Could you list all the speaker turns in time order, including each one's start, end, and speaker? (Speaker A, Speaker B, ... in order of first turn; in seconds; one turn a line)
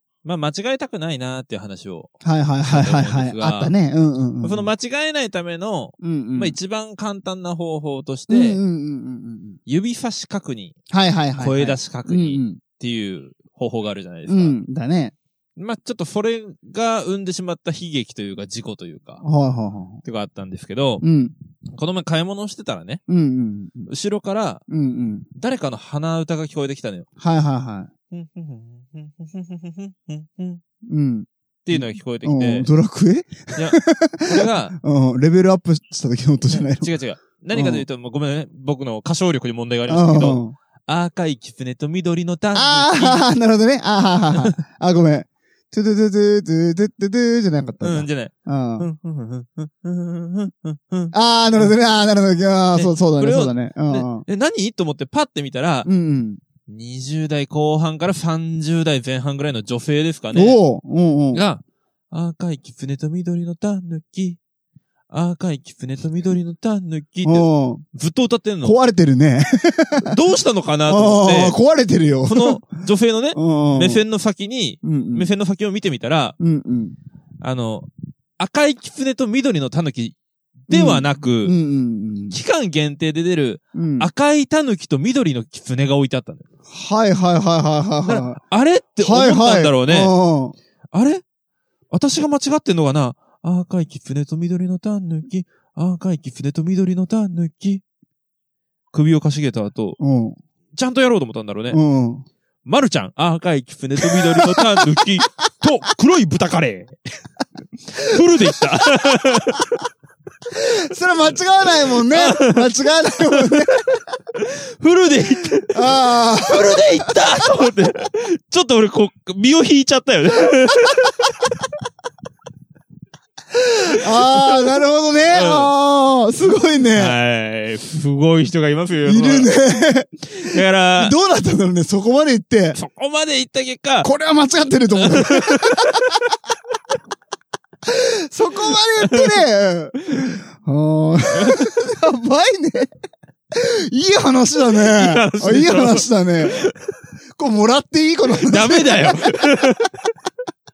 Speaker A: 0.2-3.7
Speaker B: 2.2-4.7
Speaker A: 4.4-8.6
Speaker B: 6.0-6.5
Speaker B: 8.3-9.6
Speaker A: 9.7-10.8
Speaker B: 10.9-12.6
Speaker A: 11.4-14.6
Speaker B: 14.3-15.1
Speaker A: 15.6-19.2
Speaker B: 19.2-20.0
Speaker A: 20.0-21.0
Speaker B: 21.0-21.3
Speaker A: 21.7-23.0
Speaker B: 23.1-23.9
Speaker A: 23.9-24.6
Speaker B: 24.7-25.3
Speaker A: 25.3-27.1
Speaker B: 27.2-27.9
Speaker A: 28.1-30.6
Speaker B: 30.8-36.9
Speaker A: 31.6-32.7
Speaker A: 33.5-34.8
Speaker A: 36.5-43.2
Speaker B: 37.5-37.8
Speaker B: 39.9-40.5
Speaker B: 42.5-48.9
Speaker A: 47.8-51.7
Speaker B: 51.1-54.2
Speaker A: 52.7-55.9
Speaker B: 55.9-56.4
Speaker A: 56.7-60.6
Speaker B: 60.3-61.4
Speaker A: 61.3-64.4
Speaker A: 65.1-68.8
Speaker B: 67.2-67.8
Speaker B: 68.6-70.1
Speaker A: 70.0-71.6
Speaker B: 70.9-72.6
Speaker A: 72.2-76.4
Speaker B: 73.3-74.0
Speaker B: 74.8-75.3
Speaker B: 76.4-77.0
Speaker A: 77.4-80.2
Speaker A: 80.7-81.5
Speaker B: 80.7-82.4
Speaker A: 82.3-86.5
Speaker B: 83.7-84.1
Speaker B: 86.7-88.4
Speaker A: 88.0-90.1
Speaker B: 89.0-90.5
Speaker A: 90.9-91.2
Speaker A: 91.9-97.8
Speaker A: 98.9-100.0
Speaker B: 100.0-100.4
Speaker A: 100.8-101.8
Speaker B: 101.7-102.2
Speaker A: 102.6-107.0
Speaker B: 104.0-104.8
Speaker A: 108.0-109.7
Speaker B: 108.2-109.1
Speaker B: 110.5-114.0
Speaker A: 112.1-112.7
Speaker A: 113.3-113.8
Speaker A: 114.3-121.2
Speaker B: 115.7-117.1
Speaker B: 120.7-121.1
Speaker B: 123.5-127.2
Speaker A: 123.9-124.8
Speaker A: 125.3-125.7
Speaker A: 127.0-129.5
Speaker B: 129.0-132.8
Speaker A: 130.3-131.1
Speaker A: 132.7-134.1
Speaker B: 134.0-136.3
Speaker A: 134.9-136.1
Speaker B: 137.8-142.9
Speaker A: 139.0-139.3
Speaker A: 141.3-141.6
Speaker B: 143.5-146.6
Speaker A: 144.7-146.7
Speaker B: 147.3-149.8
Speaker A: 148.4-150.1